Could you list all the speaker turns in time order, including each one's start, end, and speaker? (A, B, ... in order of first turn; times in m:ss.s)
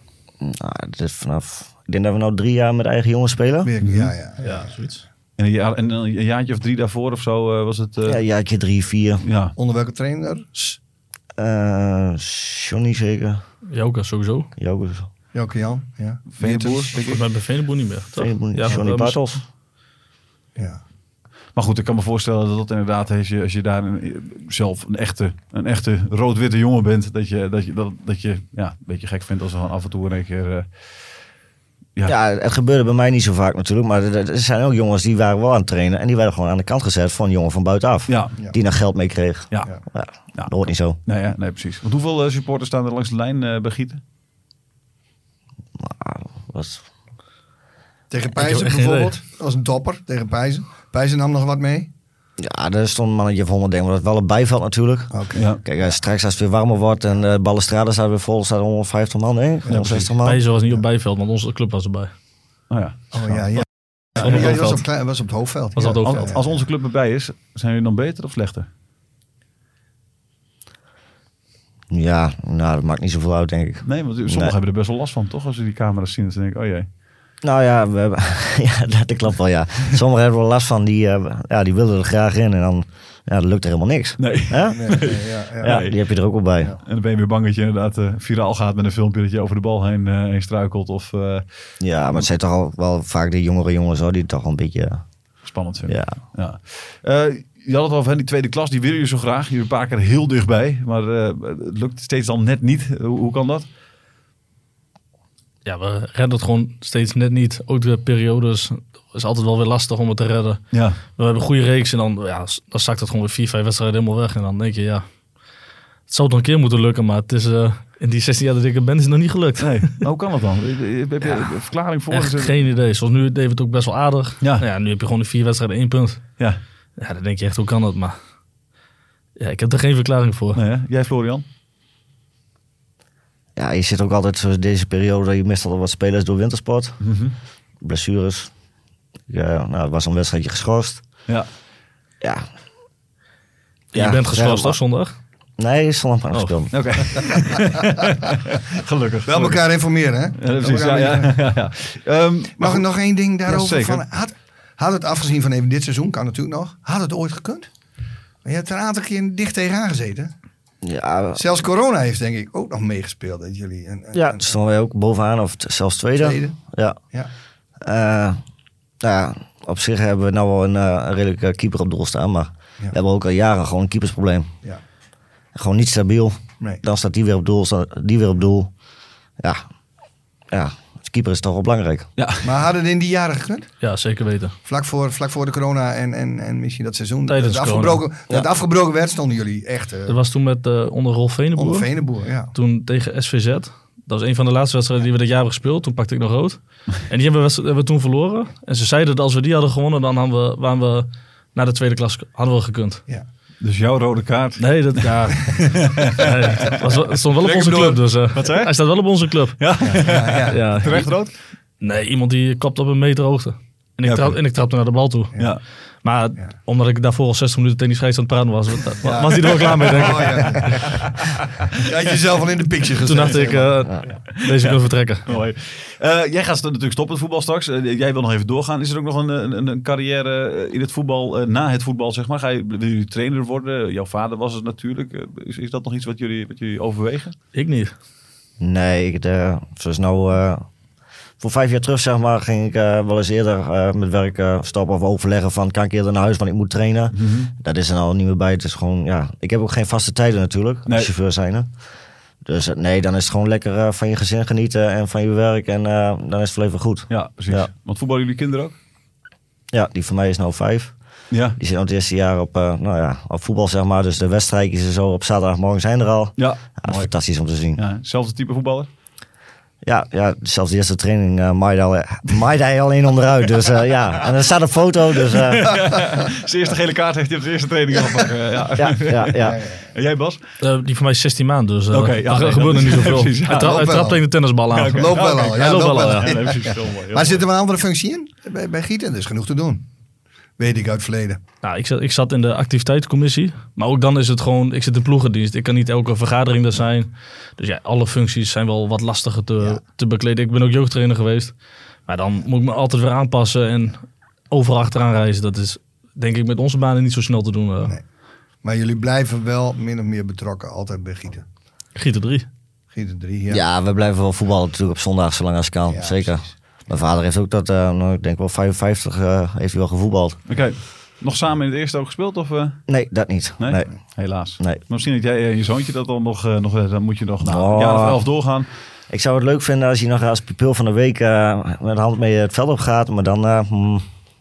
0:00.4-0:03.7 A
0:03.6-0:04.7 B
0:03.8-0:04.1 C
0:04.4-0:05.0 D
0:05.4-0:08.2 C
0:08.0-0:09.2 A
0:09.2-0:09.5 C
0:09.6-0:10.8 B
0:11.4-0:13.4 A
0:13.7-0:14.5 D
0:14.6-0:15.1 A
0:15.3-0:16.9 B
0:16.3-0:17.2 C
0:17.0-0:19.4 D
0:18.2-0:19.4 A
0:21.6-0:30.7 C
0:32.0-0:41.0 A
0:38.1-0:38.3 C
0:41.0-0:44.0 C
0:45.8-0:46.8 A
0:48.1-0:51.9 B
0:48.4-0:49.1 D
0:52.4-1:00.4 A
0:55.1-0:55.4 B
0:55.3-0:55.6 C
0:59.7-1:00.1 C
1:00.2-1:02.1 D
1:02.7-1:03.4 C
1:03.1-1:06.4 B
1:04.2-1:04.8 D
1:04.2-1:04.6 C
1:05.8-1:06.3 D
1:06.0-1:08.7 C
1:11.9-1:14.5 A
1:13.8-1:16.9 C
1:17.4-1:26.7 A
1:24.2-1:26.0 C
1:24.7-1:25.8 B
1:26.8-1:31.4 C
1:31.8-1:35.0 A
1:35.4-1:43.6 C
1:35.9-1:36.2 A
1:45.6-1:50.6 D
1:50.7-1:51.0 C
1:51.2-1:55.0 D
1:56.1-2:00.0 D
1:59.6-2:02.6 C
2:01.2-2:01.6 D
2:02.1-2:06.2 D
2:07.0-2:08.2 D
2:09.4-2:10.6 D
2:10.5-2:11.4 C
2:13.6-2:17.0 A
2:17.0-2:17.3 C
2:17.8-2:18.5 A
2:19.3-2:21.0 A
2:23.9-2:25.1 D
2:23.9-2:24.8 A
2:25.6-2:26.8 A
2:26.7-2:29.6 C
2:29.3-2:31.4 B
2:30.4-2:32.8 C
2:32.6-2:37.7 B
2:33.4-2:34.0 C
2:38.4-2:40.3 B
2:40.8-2:41.4 A
2:41.3-2:44.5 B
2:44.1-2:47.0 A
2:46.2-2:46.6 B
2:47.8-2:48.4 A
2:49.0-2:54.5 A
2:55.5-2:58.7 A
3:00.5-3:02.1 A
3:02.2-3:02.5 C
3:02.4-3:03.7 B
3:03.8-3:04.6 D
3:04.6-3:10.2 B
3:07.3-3:08.0 D
3:10.1-3:11.9 D
3:11.6-3:12.5 B
3:12.5-3:23.0 D
3:23.6-3:26.8 C
3:24.6-3:29.6 D
3:27.4-3:28.7 C
3:29.6-3:31.3 C
3:29.8-3:30.7 B
3:30.5-3:31.1 D
3:31.8-3:35.3 D
3:34.0-3:34.4 C
3:36.0-3:40.9 D
3:39.0-3:41.0 B
3:39.4-3:41.0 C
3:41.8-3:44.2 B
3:43.0-3:45.3 D
3:45.3-3:57.4 C
3:57.5-3:57.9 D
3:58.6-4:00.6 A
4:01.4-4:11.7 A
4:07.1-4:07.5 C
4:10.9-4:11.1 C
4:12.4-4:17.7 A
4:17.1-4:18.8 C
4:19.7-4:20.9 A
4:21.3-4:21.6 C
4:21.5-4:27.8 A
4:26.4-4:27.1 C
4:27.8-4:28.9 C
4:29.8-4:35.9 A
4:35.3-4:40.4 C
4:38.8-4:39.6 A
4:39.4-4:39.7 B
4:40.6-4:46.3 D
4:41.9-4:43.9 C
4:43.4-4:44.2 B
4:44.7-4:47.4 C
4:45.0-4:49.8 B
4:50.6-4:51.4 B
4:51.6-5:01.5 D
5:02.1-5:07.9 D
5:08.6-5:11.4 B
5:12.0-5:12.5 D
5:12.9-5:13.6 B
5:13.5-5:20.4 A
5:15.9-5:16.5 B
5:20.5-5:22.8 C
5:22.9-5:23.9 A
5:23.6-5:28.7 C
5:27.4-5:28.2 A
5:29.1-5:34.0 A